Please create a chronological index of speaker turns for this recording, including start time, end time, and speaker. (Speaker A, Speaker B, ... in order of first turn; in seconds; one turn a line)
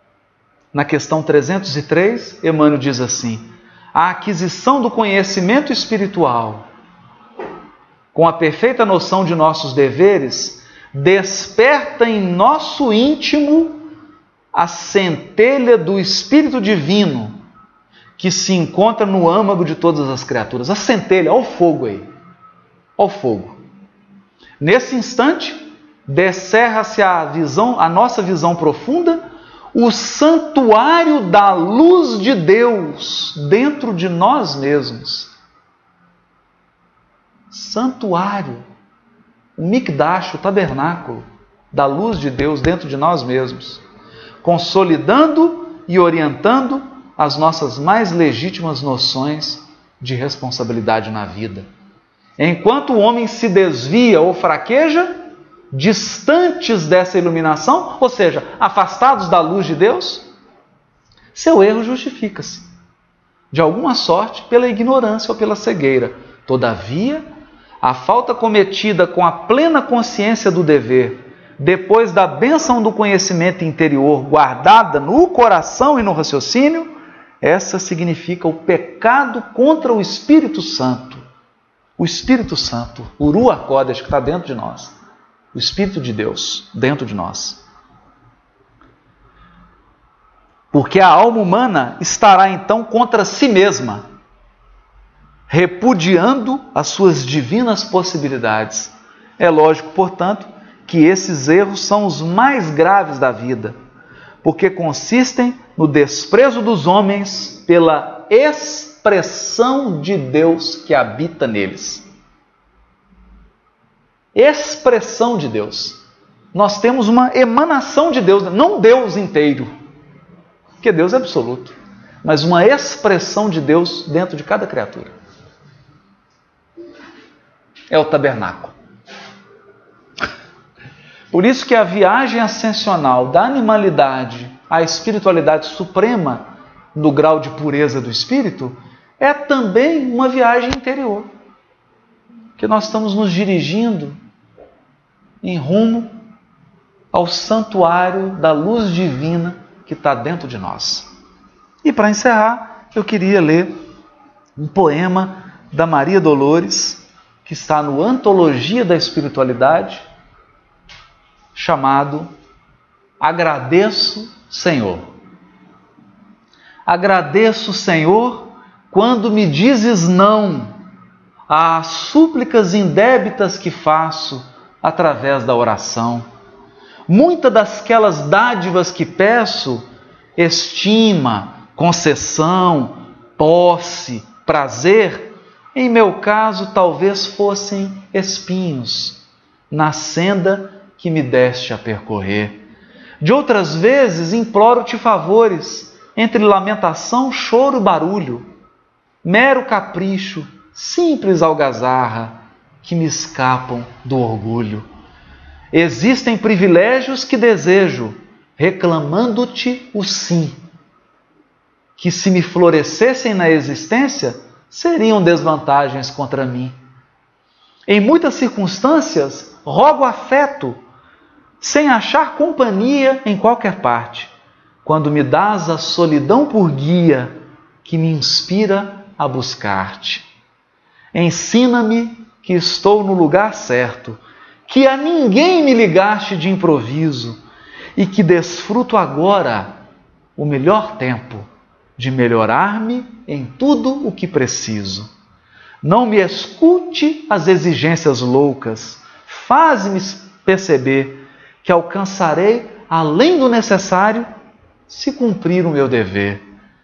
Speaker A: 0.7-6.7
Speaker A: 8.1-13.8
Speaker A: 14.5-17.4
Speaker A: 18.2-22.1
Speaker A: 23.0-23.6
Speaker A: 24.6-35.3
Speaker A: 37.5-38.6
Speaker A: 39.6-43.8
Speaker A: 44.4-51.7
Speaker A: 52.4-55.2
Speaker A: 55.7-60.3
Speaker A: 61.3-62.7
Speaker A: 63.5-67.2
Speaker A: 67.8-81.2
Speaker A: 82.0-85.0
Speaker A: 85.5-87.6
Speaker A: 90.7-94.0
Speaker A: 95.5-103.8
Speaker A: 104.4-112.0
Speaker A: 114.3-116.0
Speaker A: 116.5-119.7
Speaker A: 120.8-125.1
Speaker A: 127.9-128.7
Speaker A: 131.3-141.3
Speaker A: 142.6-144.2
Speaker A: 145.4-146.2
Speaker A: 147.1-151.1
Speaker A: 151.8-153.7
Speaker A: 154.6-160.0
Speaker A: 161.5-162.3
Speaker A: 163.2-165.1
Speaker A: 166.8-170.8
Speaker A: 171.5-176.2
Speaker A: 177.1-179.8
Speaker A: 180.4-192.6
Speaker A: 193.2-198.5
Speaker A: 199.2-204.9
Speaker A: 205.7-210.6
Speaker A: 211.9-216.8
Speaker A: 217.9-220.8
Speaker A: 221.6-224.3
Speaker A: 224.8-230.3
Speaker A: 231.1-237.4
Speaker A: 237.9-239.8
Speaker A: 240.3-241.4
Speaker A: 242.0-245.1
Speaker A: 245.8-254.3
Speaker A: 254.9-256.4